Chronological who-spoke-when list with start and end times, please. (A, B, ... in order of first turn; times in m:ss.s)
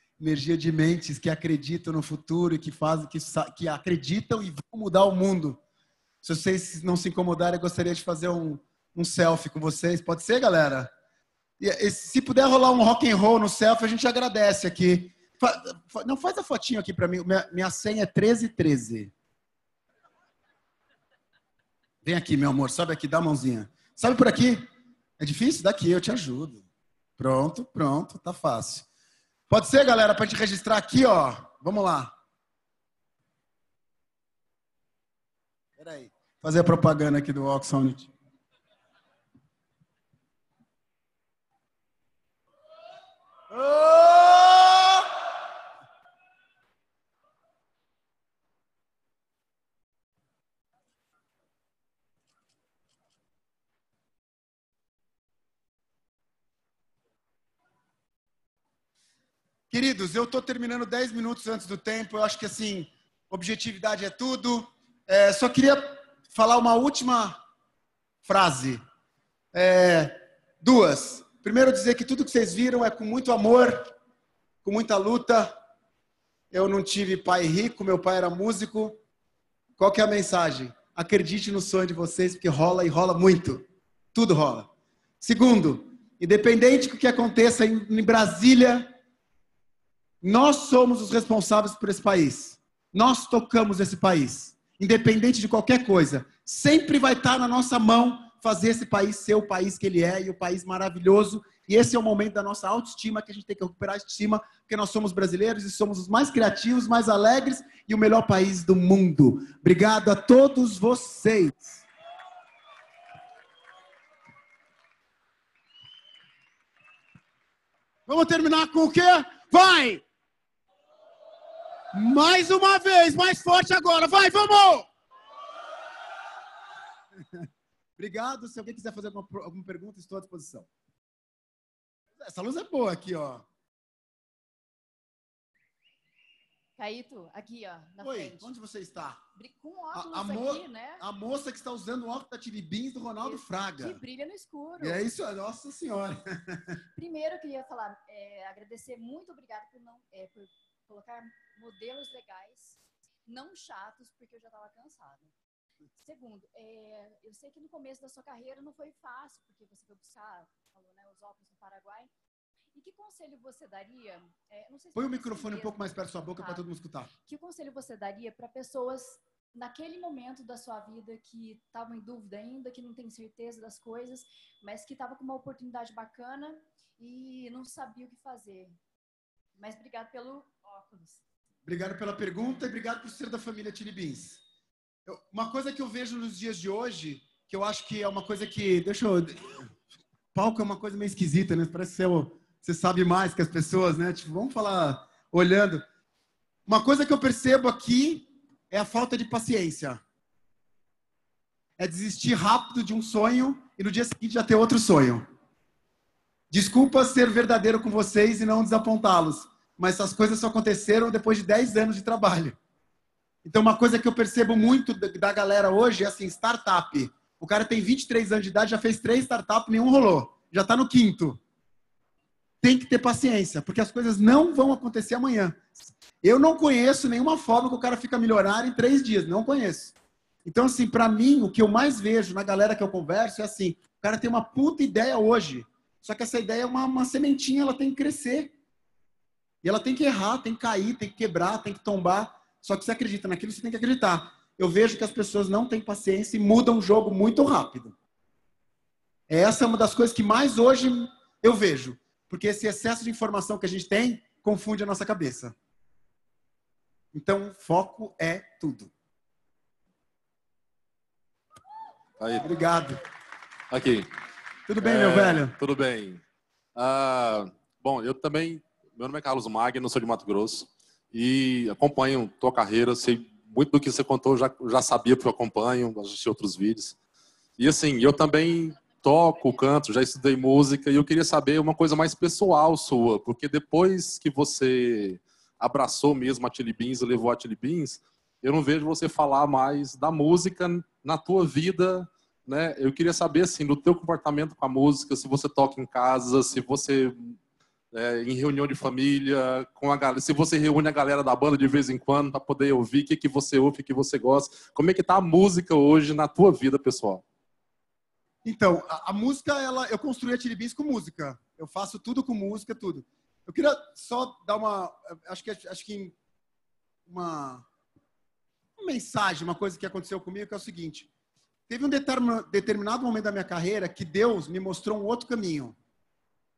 0:00.2-0:05.6 A
0:06.2-0:10.9 A
0:11.6-0:19.1 A
0:22.0-0:24.7 A
0:25.2-0:26.6 A
0:27.2-0:28.8 A
0:29.5-0:32.1 A
0:35.8-0:38.1 A
0:43.5-0:45.1 A
0:59.7-1:07.4 A
1:08.2-1:08.8 A
1:09.5-1:13.9 A
1:14.6-1:15.5 A
1:16.5-1:19.0 A
1:19.8-1:24.7 A
1:25.2-1:28.9 A
1:30.2-1:51.8 A
1:58.1-2:00.0 A
2:01.9-2:04.9 A
2:08.0-2:10.7 A
2:12.2-2:13.4 A
2:16.8-2:18.5 B
2:18.0-2:19.2 A
2:19.4-2:21.0 B
2:19.9-2:24.0 A
2:23.2-2:25.1 B
2:24.8-2:26.6 A
2:27.0-2:35.3 B
2:36.0-2:42.1 B
2:42.7-2:46.7 B
2:45.0-2:47.1 A
2:47.3-2:58.8 B
2:59.6-3:01.2 B
3:01.7-3:04.4 A
3:05.1-3:09.7 A
3:10.3-3:15.8 A
3:16.7-3:20.0 A
3:21.8-3:25.2 A
3:26.5-3:32.6 A
3:33.4-3:41.4 A
3:42.6-3:49.9 A
3:50.4-3:58.5 A
3:59.6-4:08.0 A
4:09.3-4:15.5 A
4:17.1-4:18.9 A
4:22.2-4:22.5 C
4:22.4-4:23.0 A
4:23.7-4:24.1 C
4:24.7-4:25.5 A
4:24.8-4:26.2 C
4:26.8-4:37.0 C
4:37.6-4:57.4 C
4:57.9-5:07.2 C
5:08.4-5:16.2 A
5:17.1-5:17.6 A
5:18.8-5:21.1 A
5:21.7-5:25.8 A